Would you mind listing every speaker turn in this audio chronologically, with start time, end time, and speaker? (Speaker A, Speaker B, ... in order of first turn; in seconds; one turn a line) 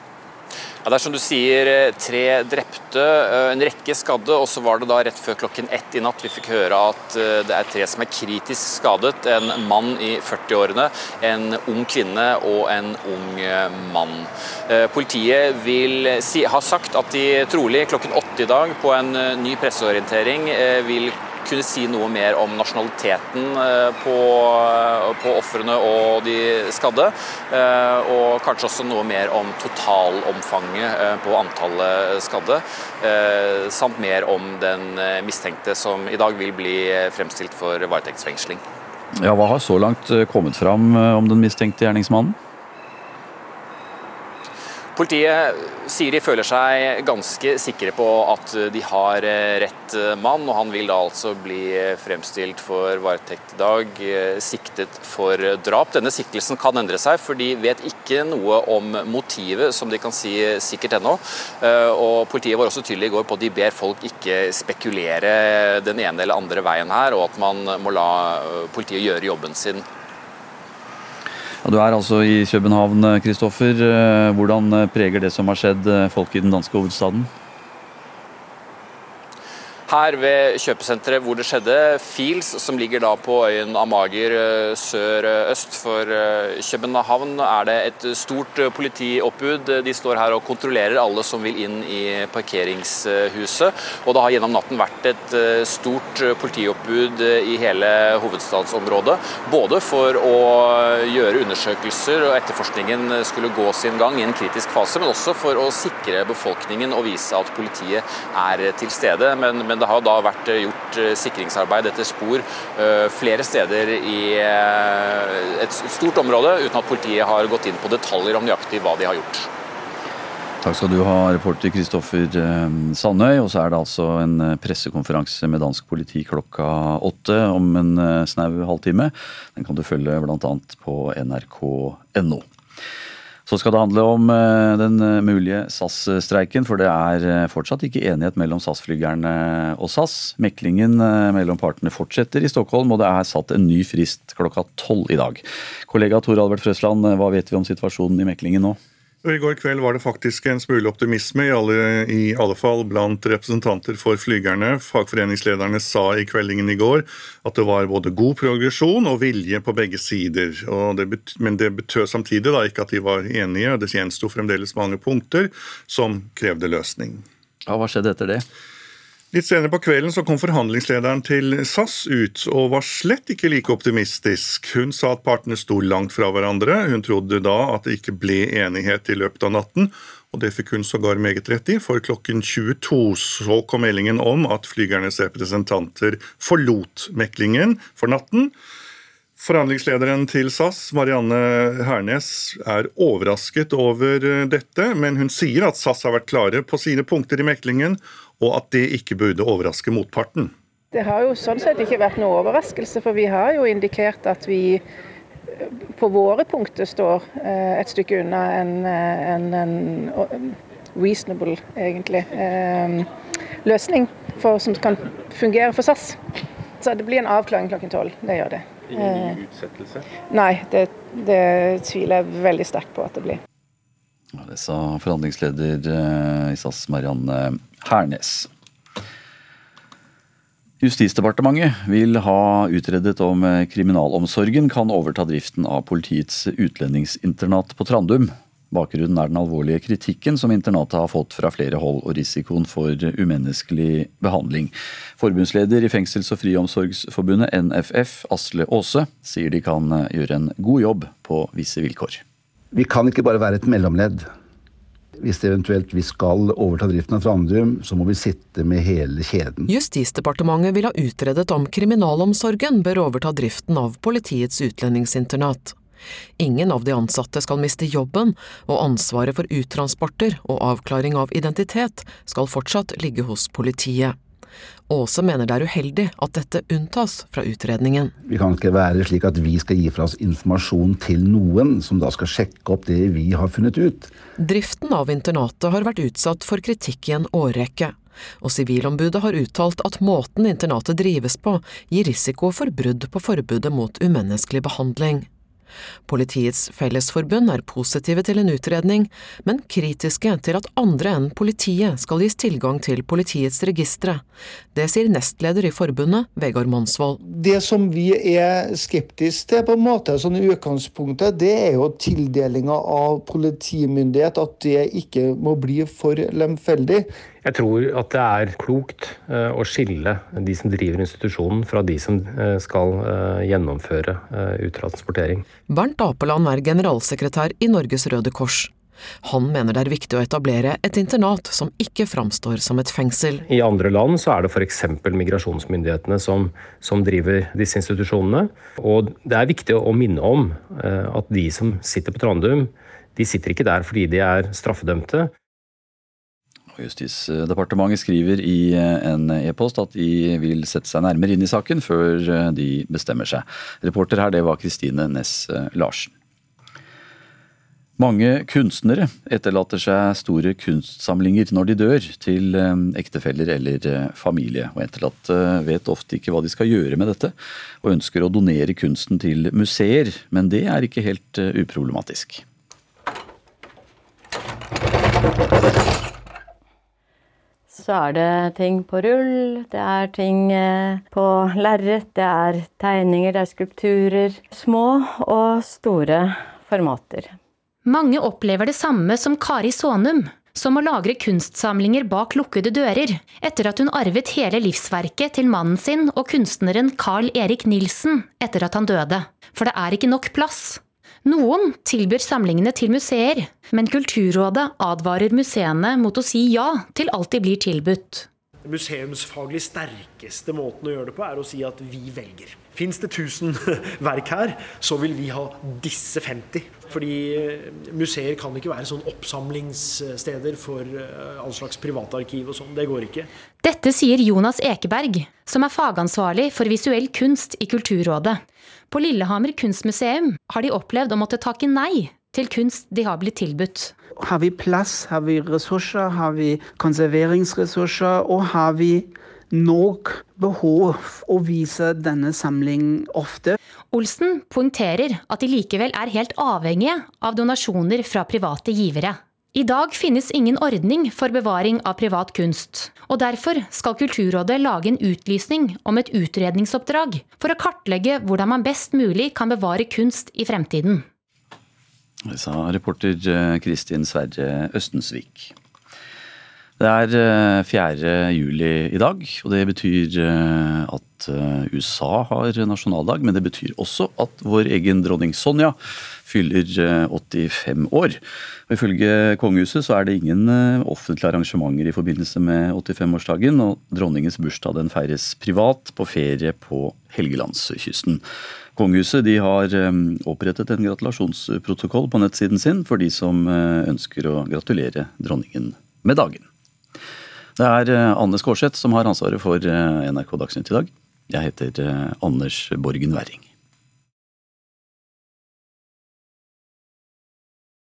Speaker A: 0.8-38.6
Speaker B: 39.2-42.4
Speaker A: 44.9-69.8
Speaker B: 71.6-77.3
Speaker A: 79.9-119.5
Speaker B: 120.6-132.4
Speaker B: 133.4-148.8
Speaker C: 149.2-167.2
Speaker B: 167.7-168.4
Speaker C: 169.3-188.5
Speaker C: 189.4-200.5
Speaker D: 200.9-204.8
Speaker D: 205.5-213.1
Speaker D: 213.6-216.2
Speaker D: 216.8-219.5
Speaker D: 220.3-223.4
Speaker B: 224.3-228.5
Speaker B: 230.8-252.2
Speaker E: 252.7-254.3
Speaker E: 255.2-259.7
Speaker F: 259.7-265.8
Speaker F: 266.4-274.2
Speaker F: 274.9-278.1
Speaker E: 278.2-284.1
Speaker F: 284.4-295.3
Speaker F: 296.1-304.2
Speaker F: 304.7-307.2
Speaker G: 307.2-317.1
Speaker H: 317.4-325.4
Speaker F: 325.7-328.7
Speaker F: 329.2-333.4
Speaker H: 333.5-345.3
Speaker B: 346.7-356.1
Speaker B: 358.0-372.4
Speaker I: 377.7-387.3
Speaker J: 387.8-408.3
Speaker K: 408.6-423.3
Speaker J: 423.6-433.9
Speaker L: 434.2-443.5
Speaker J: 443.9-461.1
Speaker B: 462.3-465.5
Speaker B: 466.8-488.2
Speaker B: 488.7-496.4
Speaker B: 497.6-503.4